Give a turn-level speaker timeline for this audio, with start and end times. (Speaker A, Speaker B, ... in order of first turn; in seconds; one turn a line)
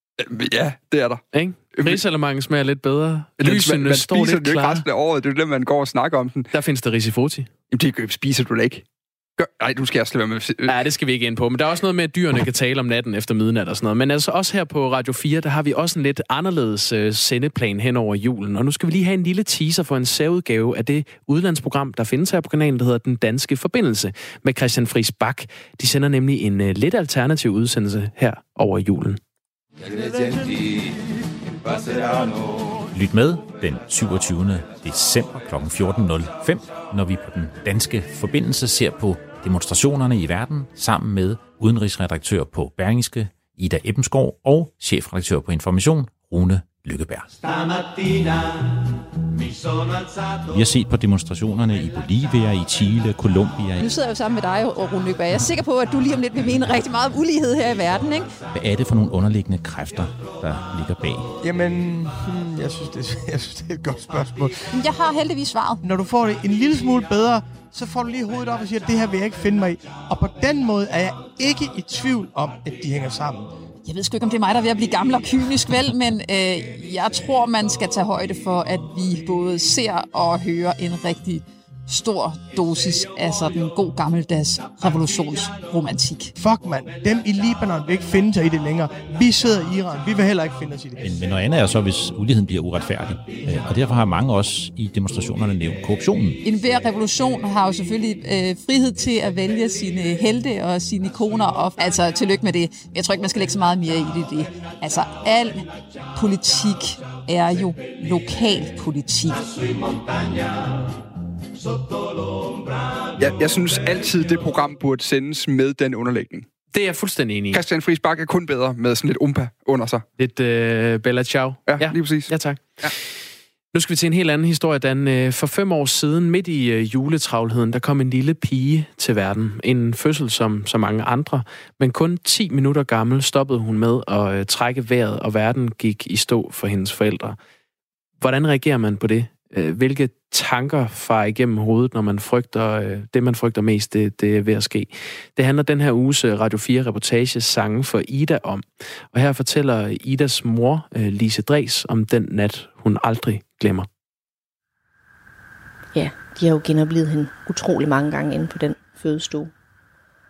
Speaker A: 0.2-1.2
Speaker B: 1.3-4.9
Speaker A: 1.7-2.0
Speaker A: 3.4-6.5
Speaker B: 6.5-7.5
Speaker A: 7.7-8.8
Speaker A: 9.4-10.7
Speaker B: 10.7-29.2
Speaker C: 32.9-47.5
Speaker C: 50.5-53.8
Speaker D: 53.8-58.3
Speaker C: 58.5-61.3
Speaker E: 61.4-64.7
Speaker D: 64.7-65.8
Speaker E: 65.8-73.5
Speaker D: 73.8-86.3
Speaker E: 86.4-91.0
Speaker C: 91.0-96.4
Speaker D: 96.4-109.5
Speaker A: 113.2-116.5
Speaker B: 116.7-117.6
Speaker A: 117.5-120.1
Speaker B: 120.2-123.1
Speaker A: 121.7-122.9
Speaker B: 123.7-137.4
Speaker B: 138.2-153.9
Speaker F: 155.9-159.5